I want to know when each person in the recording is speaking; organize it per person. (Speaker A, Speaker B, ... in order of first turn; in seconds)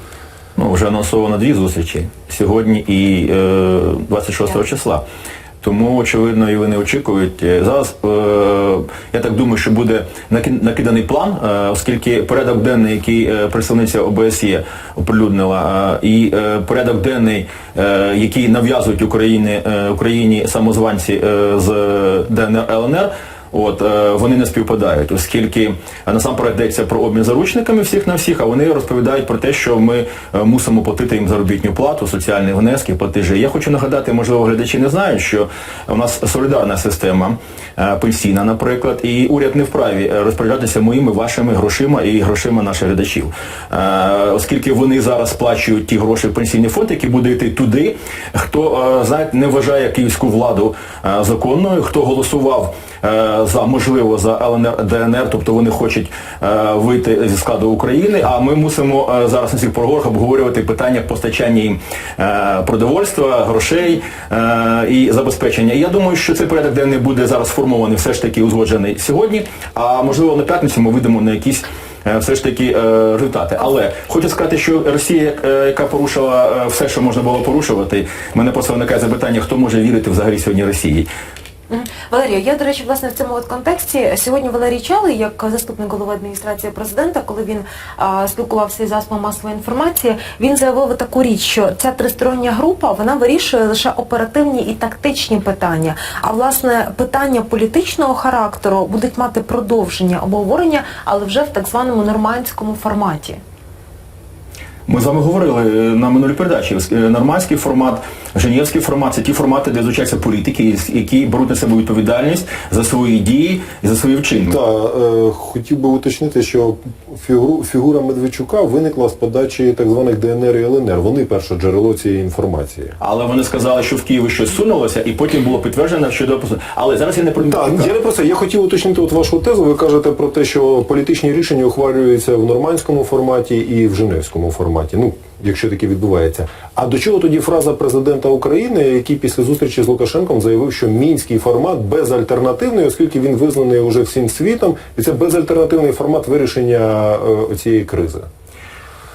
Speaker A: 0.6-5.0, 5.6-81.1, 104.9-114.6, 123.0-127.9
Speaker B: 81.7-103.4
Speaker C: 114.4-123.0, 127.4-148.3